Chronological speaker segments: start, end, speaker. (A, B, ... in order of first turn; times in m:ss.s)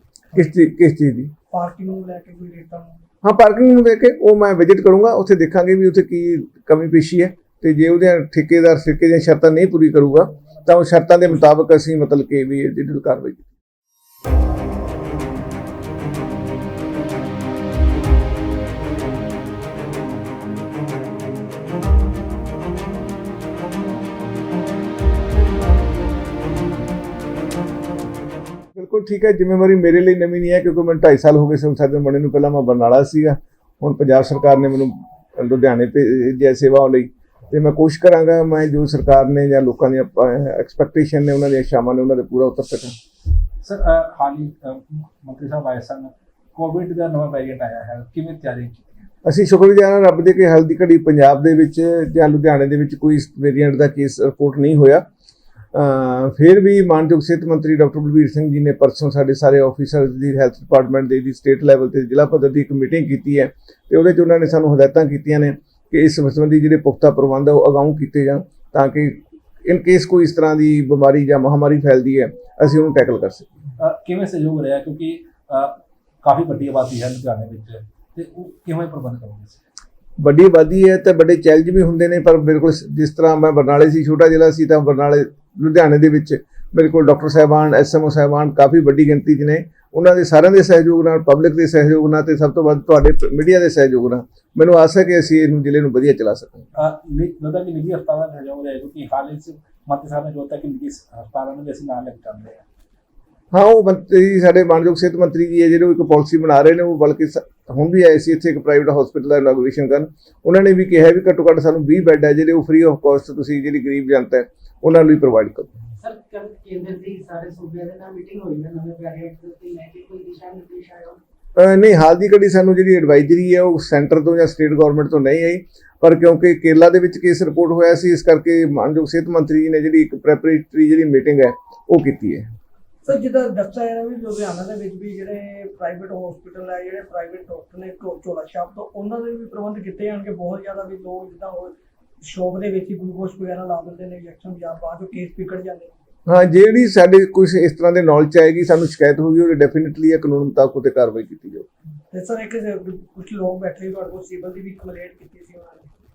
0:00.3-0:01.3 A
0:01.5-0:03.0 B
0:03.2-0:13.5 A
0:28.8-0:42.9 A
0:43.6-0:49.1 C
0:49.2-0:55.0 A
0:55.7-1:13.5 A
1:13.8-1:19.6 C
1:20.2-1:36.7 A
1:36.8-1:42.6 C
1:43.5-1:55.7 A
1:56.0-2:01.2 D
2:01.6-2:12.5 A
2:13.0-2:25.9 B
2:26.3-2:31.7 A
2:32.1-2:35.9 B